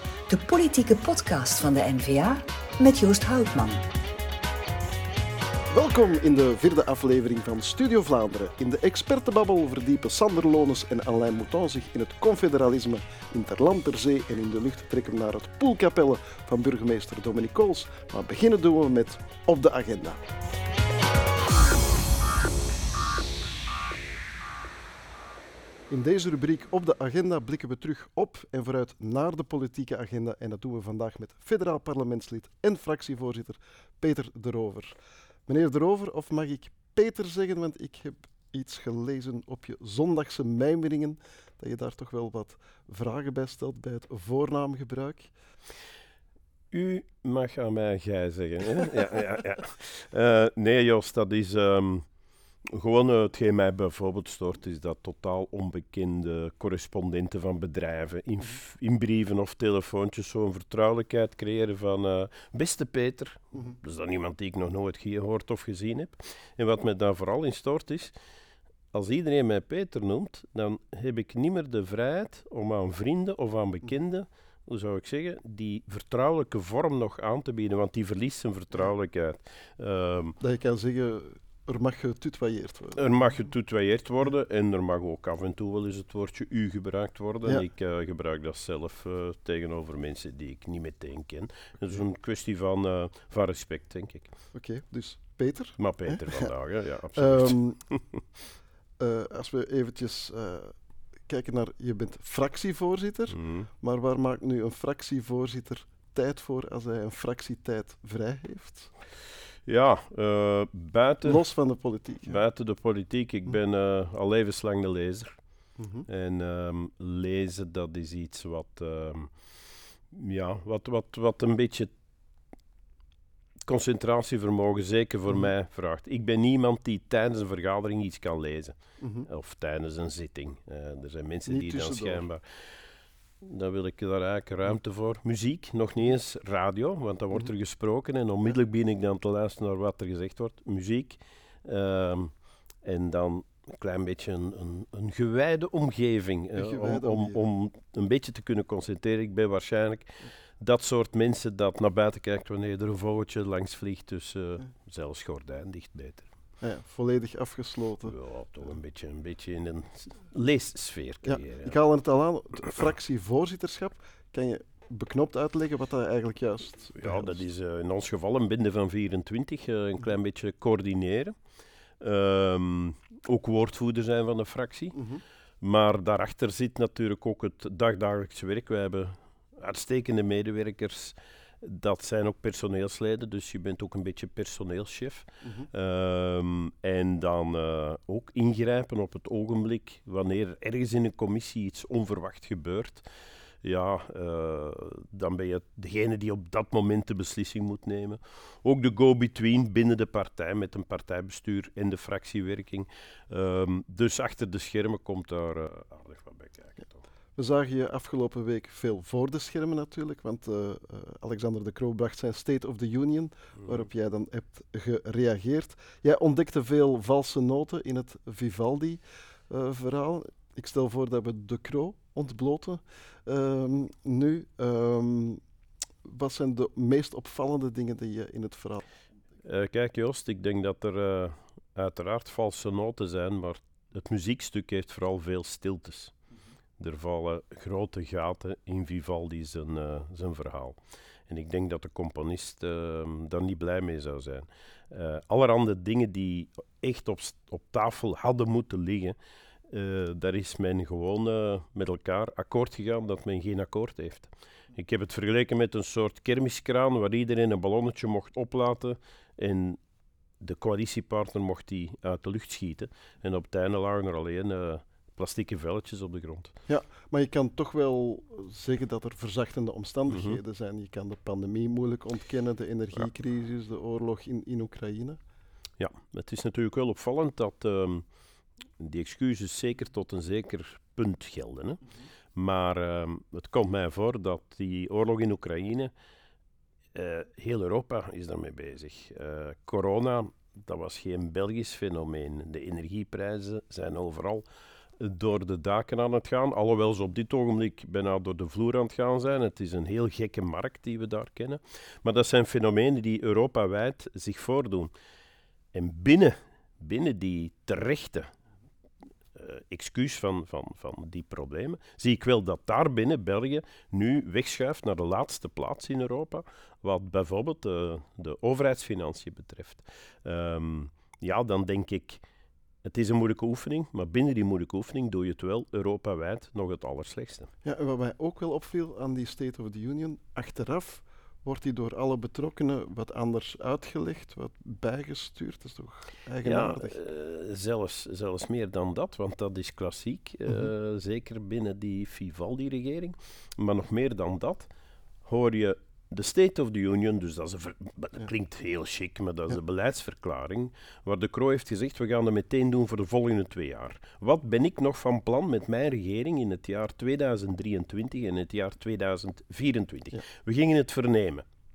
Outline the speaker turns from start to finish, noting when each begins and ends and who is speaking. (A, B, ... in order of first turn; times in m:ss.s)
0:00.3-0:03.8 A
0:05.7-0:20.2 B
0:25.9-0:45.3 B
0:46.7-0:52.1 C
0:52.7-1:08.1 C
1:08.9-1:20.4 C
1:20.4-1:23.0 B
1:23.0-1:34.3 C
1:34.5-1:36.5 B
1:35.8-1:38.2 C
1:37.1-1:37.8 B
1:39.0-1:40.8 B
1:41.3-1:48.9 B
1:43.3-1:43.7 C
1:49.6-1:51.4 C
1:51.2-1:52.4 B
1:52.2-1:55.4 C
1:55.8-1:56.0 B
1:56.0-1:59.3 C
2:00.1-2:01.9 C
2:03.7-2:12.4 C
2:09.0-2:09.3 B
2:11.5-2:12.2 B
2:13.4-2:36.3 C
2:26.5-2:27.4 B
2:36.6-2:38.2 B
2:38.0-2:41.8 C
2:41.2-2:47.4 B
2:47.0-2:51.4 C
2:52.0-2:55.0 C
2:54.9-2:55.2 B
2:55.6-3:13.0 C
3:05.4-3:05.7 B
3:13.6-3:27.0 C
3:27.4-3:45.4 B
3:46.0-3:48.8 B
3:49.4-3:56.1 C
3:56.8-4:09.2 C
4:09.7-4:19.8 C
4:20.4-4:26.5 C
4:26.7-4:35.2 B
4:30.1-4:30.4 C
4:35.8-4:38.1 C
4:38.8-4:41.8 C
4:42.3-4:45.9 C
4:46.9-4:54.4 C
4:55.0-5:04.9 C
5:05.7-5:08.3 C
5:09.4-5:22.2 C
5:22.8-5:27.5 C
5:27.6-5:37.0 B
5:36.4-5:44.7 C
5:45.2-6:01.4 C